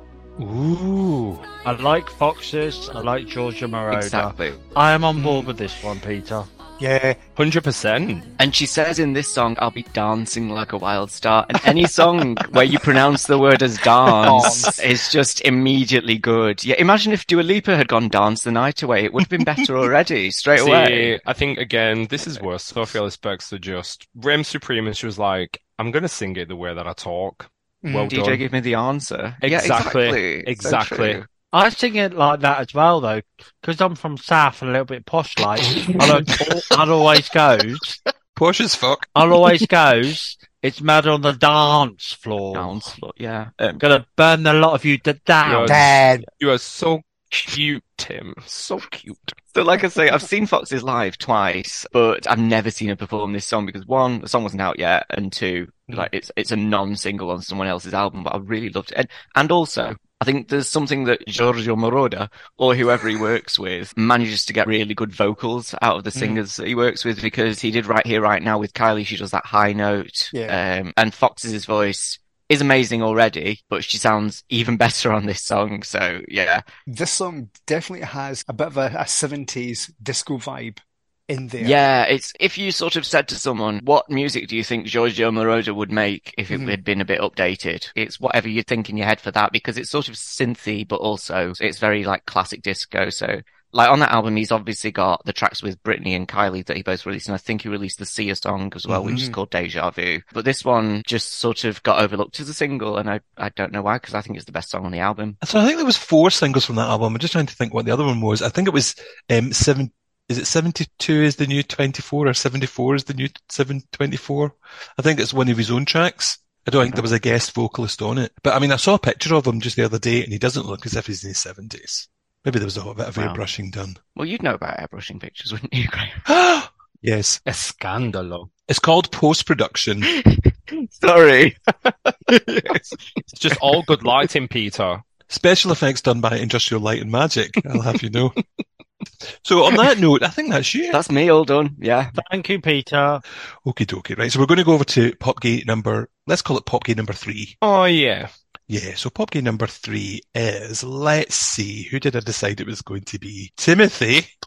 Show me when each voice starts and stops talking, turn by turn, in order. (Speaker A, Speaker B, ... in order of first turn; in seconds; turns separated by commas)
Speaker A: 0.4-1.3, Speaker B: 1.6-6.5, Speaker C: 3.9-4.6, Speaker D: 5.2-5.5, Speaker D: 6.8-7.2, Speaker A: 7.3-8.3, Speaker C: 8.4-21.2, Speaker D: 14.1-14.8, Speaker A: 20.6-28.4, Speaker D: 27.9-28.1, Speaker C: 28.0-31.3, Speaker A: 29.4-31.2, Speaker B: 31.5-38.0, Speaker E: 38.4-39.3, Speaker B: 39.1-42.9, Speaker C: 42.5-43.8, Speaker B: 43.8-45.9, Speaker A: 45.4-49.3, Speaker D: 45.6-46.2, Speaker C: 49.5-76.6, Speaker D: 66.1-66.4, Speaker D: 70.3-70.6, Speaker D: 76.9-81.8, Speaker C: 81.6-105.4, Speaker D: 86.5-86.8, Speaker E: 98.9-99.3, Speaker E: 105.4-124.0, Speaker C: 123.2-123.4, Speaker C: 124.2-126.2, Speaker E: 126.2-127.4, Speaker A: 127.5-128.5, Speaker E: 128.7-130.1, Speaker C: 130.1-131.6, Speaker C: 132.3-132.9, Speaker A: 133.3-135.0, Speaker E: 135.3-138.4, Speaker E: 139.4-141.0, Speaker C: 140.9-142.2, Speaker B: 142.2-143.2, Speaker E: 143.6-147.6, Speaker A: 147.6-148.3, Speaker E: 148.7-154.3